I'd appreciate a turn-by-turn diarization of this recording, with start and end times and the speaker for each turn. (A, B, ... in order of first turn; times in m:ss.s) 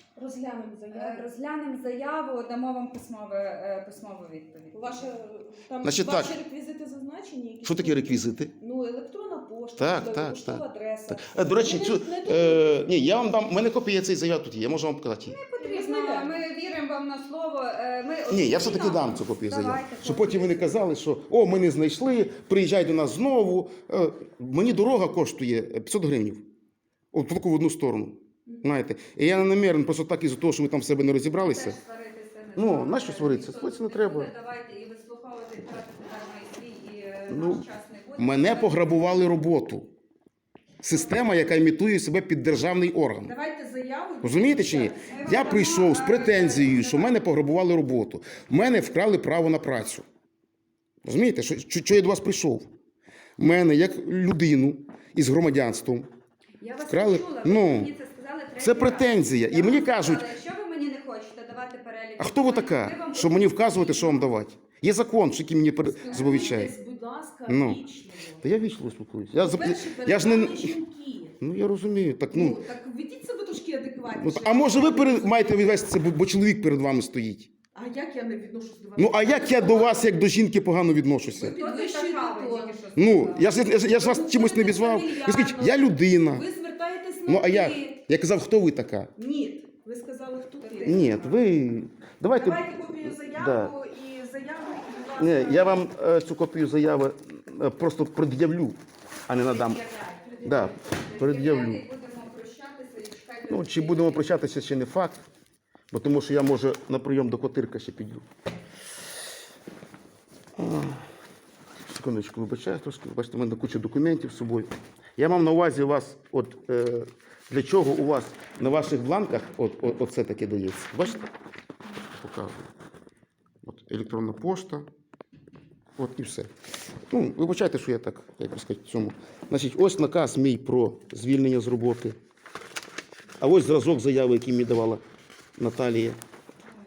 0:00.2-0:01.3 A
0:00.9-0:05.1 B
0:04.7-0:12.8 A
0:05.8-0:06.3 C
0:07.6-0:08.5 C
0:09.8-0:15.4 C
0:15.2-0:20.8 B
0:15.6-0:16.4 A
0:18.3-0:26.4 C
0:27.1-0:31.8 C
0:31.4-0:39.4 B
0:32.6-0:34.3 C
0:37.3-0:37.6 C
0:38.2-0:39.9 C
0:40.8-0:43.3 C
0:43.2-0:45.7 A
0:44.2-0:50.0 C
0:45.1-0:47.2 B
0:51.0-0:52.7 C
0:53.4-0:56.1 C
0:56.6-1:04.2 B
0:56.9-0:57.9 C
0:58.6-1:00.3 C
1:02.2-1:06.7 C
1:05.9-1:08.4 A
1:07.5-1:07.8 C
1:08.4-1:10.8 C
1:09.4-1:11.4 A
1:11.4-1:12.6 C
1:12.3-1:15.7 A
1:14.2-1:17.5 C
1:17.7-1:20.2 A
1:19.0-1:21.6 C
1:21.3-1:23.5 B
1:21.4-1:22.9 A
1:23.0-1:26.4 C
1:23.6-1:27.9 A
1:27.3-1:29.1 C
1:29.2-1:31.2 A
1:30.6-1:31.4 B
1:30.8-1:33.7 C
1:32.3-1:35.8 A
1:35.2-1:39.8 C
1:39.3-1:41.2 A
1:40.4-1:41.8 C
1:41.1-1:44.3 B
1:43.5-1:45.2 C
1:45.9-1:48.3 C
1:50.6-1:51.0 C
1:51.9-2:01.2 C
2:02.1-2:02.7 C
2:03.6-2:04.9 C
2:06.0-2:06.5 C
2:07.1-2:12.2 C
2:13.4-2:15.0 C
2:15.6-2:16.2 C